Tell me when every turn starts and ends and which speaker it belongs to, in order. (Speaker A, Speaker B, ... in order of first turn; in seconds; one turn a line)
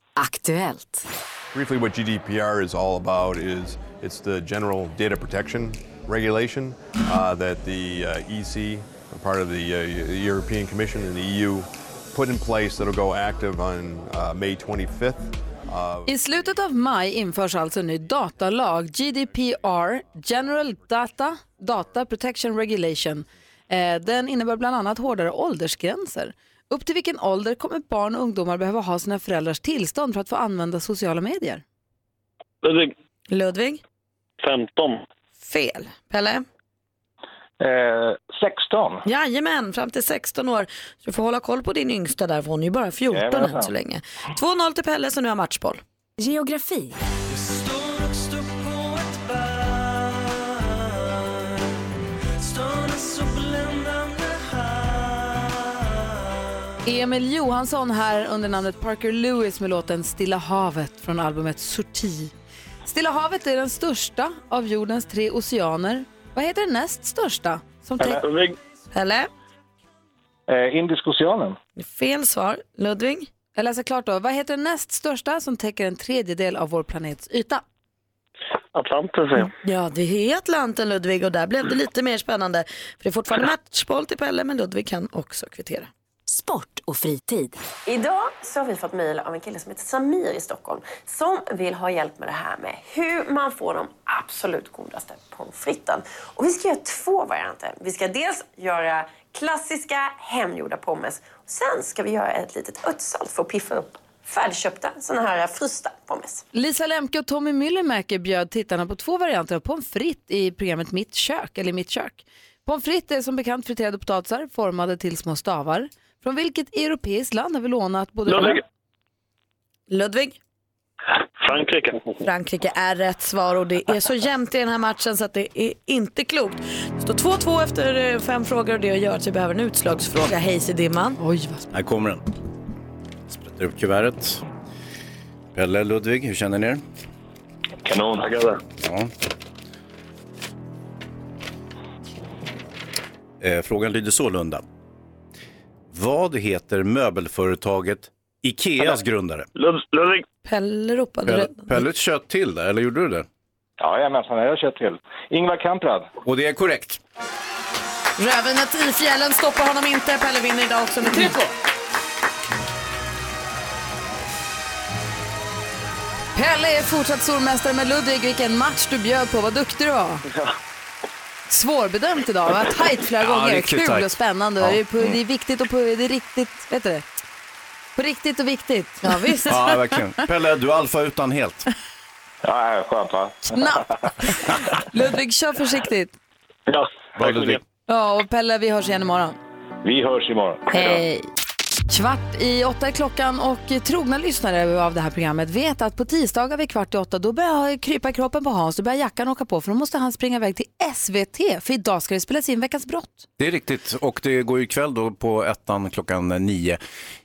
Speaker A: 0.2-1.0
Speaker B: 1.5-16.2
Speaker C: 16.1-31.6
Speaker D: 32.6-32.9
Speaker E: 33.3-33.8
Speaker D: 34.4-35.0
Speaker E: 35.4-36.5
Speaker F: 37.6-39.0
Speaker E: 39.0-45.8
Speaker F: 43.1-43.7
Speaker A: 46.2-47.0
Speaker C: 56.9-62.3
Speaker C: 62.9-68.2
Speaker D: 68.0-68.5
Speaker E: 68.9-69.3
Speaker F: 70.5-71.6
Speaker E: 71.8-73.3
Speaker C: 73.5-77.6
Speaker D: 78.8-79.5
Speaker E: 79.6-85.9
Speaker A: 86.3-87.6
Speaker G: 87.9-106.5
Speaker C: 106.5-118.6
Speaker D: 118.3-118.6
Speaker E: 119.9-120.4
Speaker D: 121.4-122.0
Speaker E: 122.2-131.2
Speaker C: 131.2-131.7
Speaker H: 131.7-132.2
Speaker H: 133.3-134.4
Speaker H: 135.5-136.8
Speaker F: 137.8-138.3
Speaker D: 138.2-138.6
Speaker H: 138.8-139.1
Speaker H: 143.4-144.7
Speaker H: 145.9-149.5
Speaker D: 149.6-150.2
Speaker E: 150.4-151.8
Speaker H: 151.3-153.3
Speaker F: 153.8-156.1
Speaker H: 156.2-157.0
Speaker E: 158.2-161.5
Speaker C: 166.3-170.2
Speaker C: 171.5-177.1
Speaker H: 173.2-174.8
Speaker C: 178.0-179.1
Speaker E: 179.0-179.8
Speaker H: 179.5-181.7
Speaker F: 182.4-183.5
Speaker C: 183.5-186.2
Speaker H: 187.2-187.6
Speaker C: 187.9-189.4
Speaker F: 189.8-190.9
Speaker C: 190.7-191.3
Speaker C: 191.9-203.3
Speaker H: 203.4-206.8